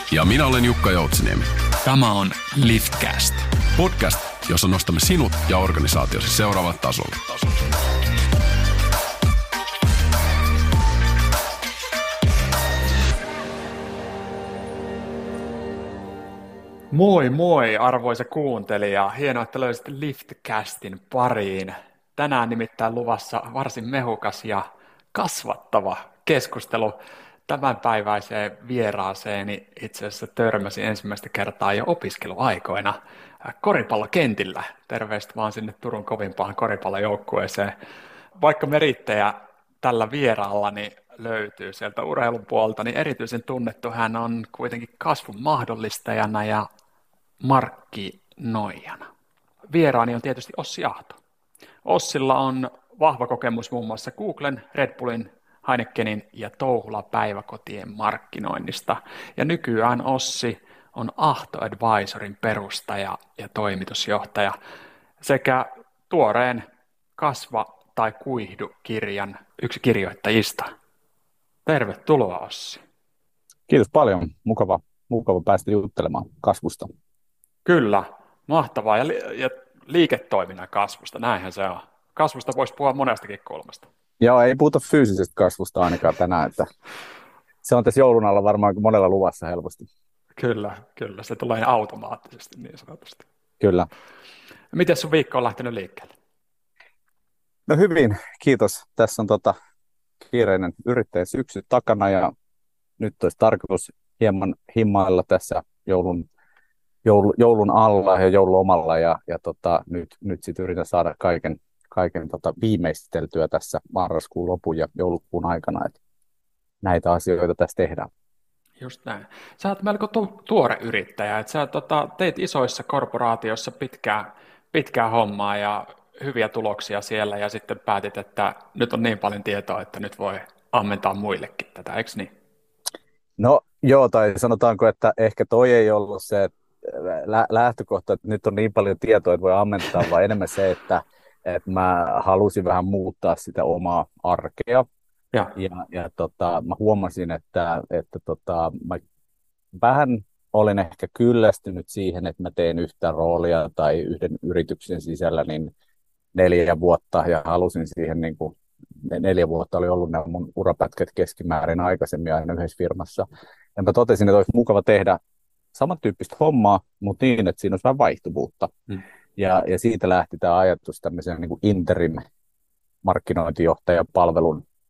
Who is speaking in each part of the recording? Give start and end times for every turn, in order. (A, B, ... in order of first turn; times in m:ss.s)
0:00.1-0:01.5 A
0:01.8-0:03.5 B
0:03.8-0:07.4 A
0:16.9-0:37.8 B
0:38.4-0:46.6 B
0:47.4-0:49.1 B
0:49.7-0:51.2 B
0:51.8-1:04.5 B
1:05.2-1:06.6 B
1:07.2-1:10.7 B
1:11.6-1:12.8 B
1:13.7-1:16.9 C
1:17.6-1:23.9 B
1:24.2-1:26.7 C
1:27.6-1:29.9 C
1:30.4-1:33.2 B
1:33.6-1:33.9 C
1:34.7-1:36.1 B
1:37.7-1:39.5 C
1:40.2-1:42.3 C
1:43.0-1:46.2 C
1:47.0-1:56.0 C
1:56.8-1:58.1 C
1:58.8-2:12.3 B
2:13.4-2:24.8 C
2:25.6-2:29.0 C
2:29.7-2:35.7 C
2:36.3-2:45.2 C
2:45.7-2:48.7 C
2:49.4-2:52.2 C
2:53.0-2:54.6 C